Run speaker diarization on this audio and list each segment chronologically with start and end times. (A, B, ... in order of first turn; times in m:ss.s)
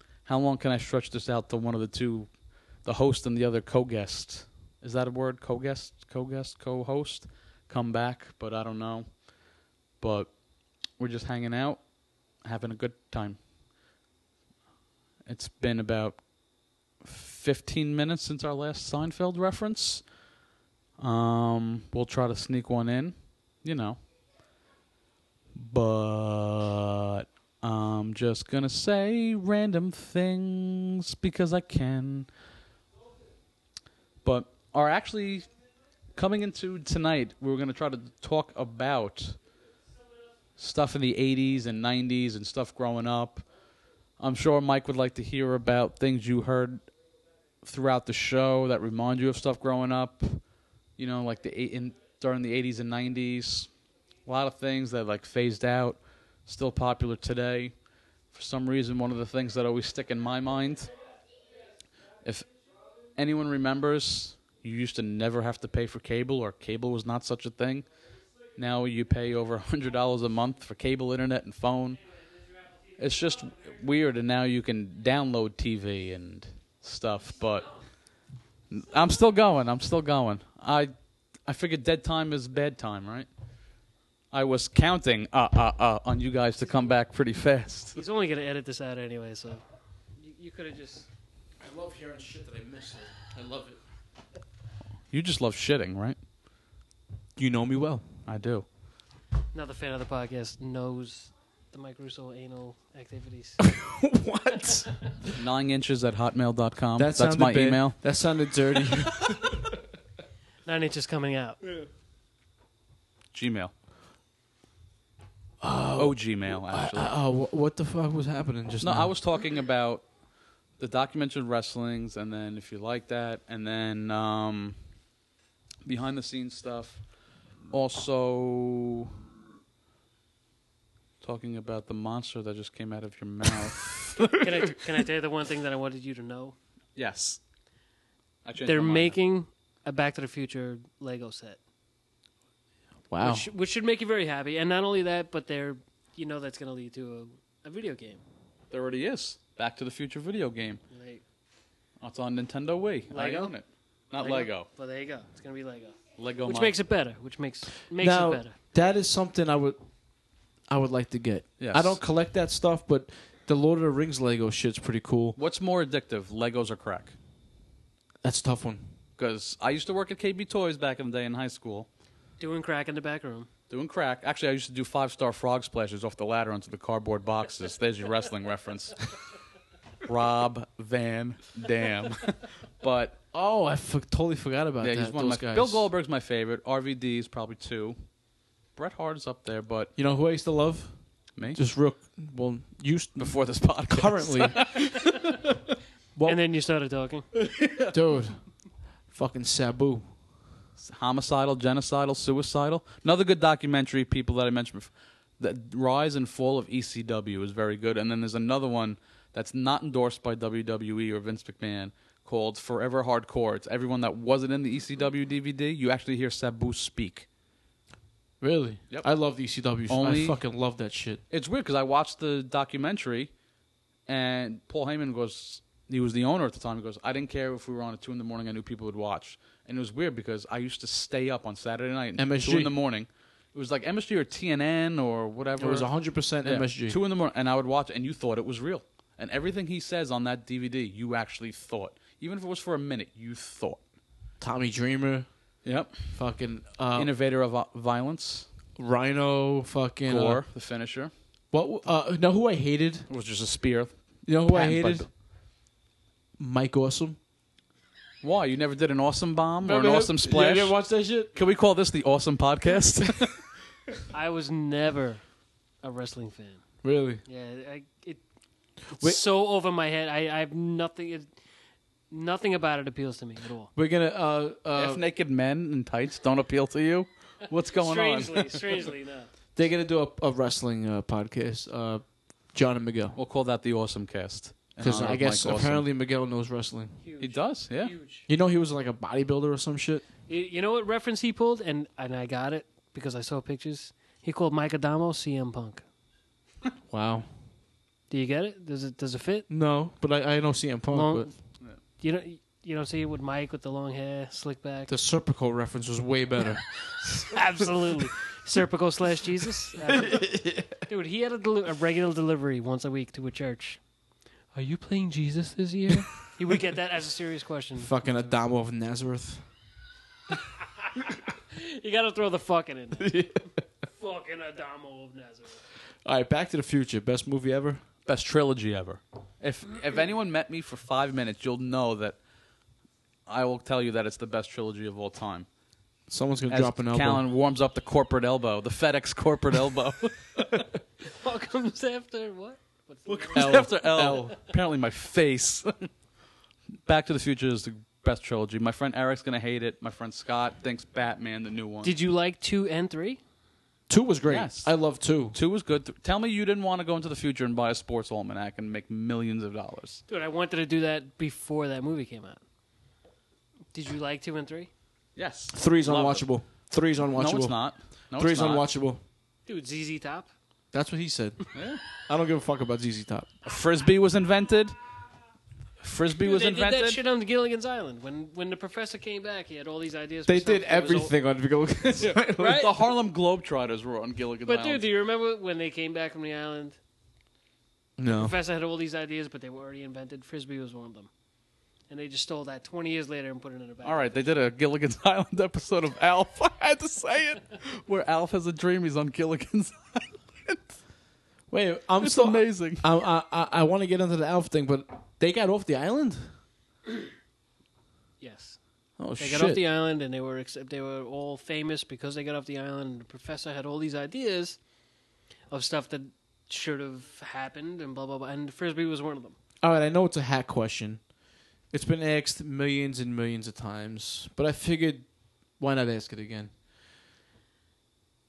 0:00.2-0:09.1 A
0:10.0-0:10.3 A
0:11.0-0:11.8 A
0:12.4-0:13.4 A
0:15.3-0:16.2 A
0:17.0-0:20.0 A
0:21.0-0:24.0 A
0:25.6-0:32.3 A
0:34.2-0:35.5 A
0:36.2-0:39.4 A
0:40.6-0:43.5 A
0:44.2-0:46.8 A
0:47.6-0:50.4 A
0:51.0-0:53.7 A
0:54.3-0:57.7 A
0:58.3-1:00.9 A
1:02.2-1:02.5 A
1:03.2-1:07.9 A
1:08.6-1:12.0 A
1:13.0-1:17.7 A
1:18.7-1:20.9 A
1:21.4-1:23.3 A
1:24.3-1:28.0 A
1:28.0-1:29.6 B
1:30.2-1:31.1 B
1:31.6-1:33.8 C
1:35.1-1:36.2 A
1:37.4-1:38.1 C
1:38.3-1:38.7 A
1:39.5-1:43.6 B
1:43.6-1:44.9 C
1:45.4-1:48.0 A
1:47.0-1:49.6 C
1:50.7-1:51.6 B
1:53.3-1:53.7 A
1:55.6-1:59.1 C
1:56.0-1:57.1 A
1:58.8-2:00.0 A
2:00.8-2:04.8 A
2:05.8-2:07.0 A
2:07.7-2:09.1 A
2:11.2-2:14.3 A
2:14.3-2:16.6 B
2:17.0-2:17.4 A
2:18.4-2:19.2 A
2:18.6-2:21.6 B
2:23.1-2:23.5 C
2:23.2-2:28.2 B
2:28.7-2:30.8 A
2:30.9-2:31.2 B
2:32.0-2:34.7 A
2:33.1-2:33.6 B
2:34.2-2:38.6 B
2:36.2-2:36.8 A
2:38.0-2:39.8 C
2:40.7-2:45.4 C
2:41.6-2:42.0 A
2:45.4-2:47.2 A
2:48.2-2:48.9 C
2:49.2-2:51.9 A
2:52.4-2:53.5 B
2:53.7-2:59.1 A
3:00.0-3:03.2 A
3:03.3-3:05.9 C
3:04.8-3:08.0 A
3:08.8-3:09.9 A
3:10.0-3:13.4 C
3:13.2-3:15.5 A
3:13.9-3:14.6 C
3:16.2-3:17.3 B
3:17.4-3:17.9 A
3:17.9-3:18.4 C
3:19.1-3:20.1 C
3:20.8-3:37.3 A
3:38.4-3:41.2 C
3:39.9-3:40.4 A
3:41.3-3:43.3 A
3:44.1-3:55.9 A
3:52.2-3:52.8 C
3:55.6-3:57.0 C
3:56.4-4:03.8 A
4:04.4-4:05.3 C
4:05.6-4:06.0 A
4:06.1-4:07.1 C
4:07.0-4:08.5 A
4:08.8-4:10.4 C
4:10.1-4:11.1 A
4:11.5-4:13.1 C
4:13.1-4:15.1 A
4:14.3-4:15.1 C
4:16.4-4:17.2 C
4:18.2-4:20.8 A
4:19.6-4:21.3 C
4:21.3-4:23.4 A
4:24.1-4:25.2 B
4:25.8-4:28.2 B
4:26.8-4:27.2 C
4:28.9-4:29.2 C
4:28.9-4:31.3 B
4:32.1-4:33.7 B
4:33.8-4:35.0 C
4:34.7-4:38.9 A
4:37.8-4:39.3 B
4:39.6-4:43.2 C
4:43.2-4:45.9 A
4:44.8-4:47.0 C
4:47.0-4:48.3 B
4:47.2-4:47.9 A
4:48.3-4:50.0 C
4:50.3-4:55.8 B
4:56.9-4:57.3 C
4:58.1-4:59.5 B
4:59.5-5:01.3 C
5:00.9-5:01.4 B
5:02.0-5:04.9 B
5:04.9-5:07.4 C
5:07.1-5:13.8 B
5:09.9-5:10.8 C
5:14.5-5:17.9 B
5:17.8-5:19.4 C
5:21.0-5:25.6 B
5:23.0-5:23.4 C
5:26.0-5:27.8 C
5:28.1-5:32.2 A
5:33.3-5:35.5 A
5:36.1-5:37.2 C
5:36.5-5:40.6 A
5:41.1-5:43.7 B
5:43.1-5:44.4 C
5:43.3-5:45.9 A
5:46.8-5:51.9 A
5:51.8-5:53.2 B
5:53.9-5:55.4 C
5:54.3-5:54.7 A
5:55.3-6:00.0 A
6:00.1-6:02.4 B
6:03.7-6:04.7 B
6:05.2-6:06.3 A
6:05.5-6:07.6 C
6:07.1-6:08.7 A
6:08.2-6:09.0 C
6:09.5-6:10.3 B
6:10.7-6:13.3 C
6:11.5-6:11.8 A
6:13.4-6:14.8 A
6:15.8-6:17.0 A
6:16.2-6:21.1 B
6:20.3-6:22.6 C
6:22.0-6:24.8 A
6:22.4-6:22.8 B
6:24.5-6:26.8 B
6:28.0-6:28.3 C
6:28.1-6:31.1 B
6:31.9-6:34.3 B
6:33.8-6:40.7 A
6:41.5-6:46.3 C
6:42.0-6:42.8 A
6:48.2-6:48.6 B
6:49.0-6:49.6 C
6:49.2-6:54.6 B
6:55.5-6:59.4 B
6:59.6-7:01.0 C
7:01.7-7:06.5 C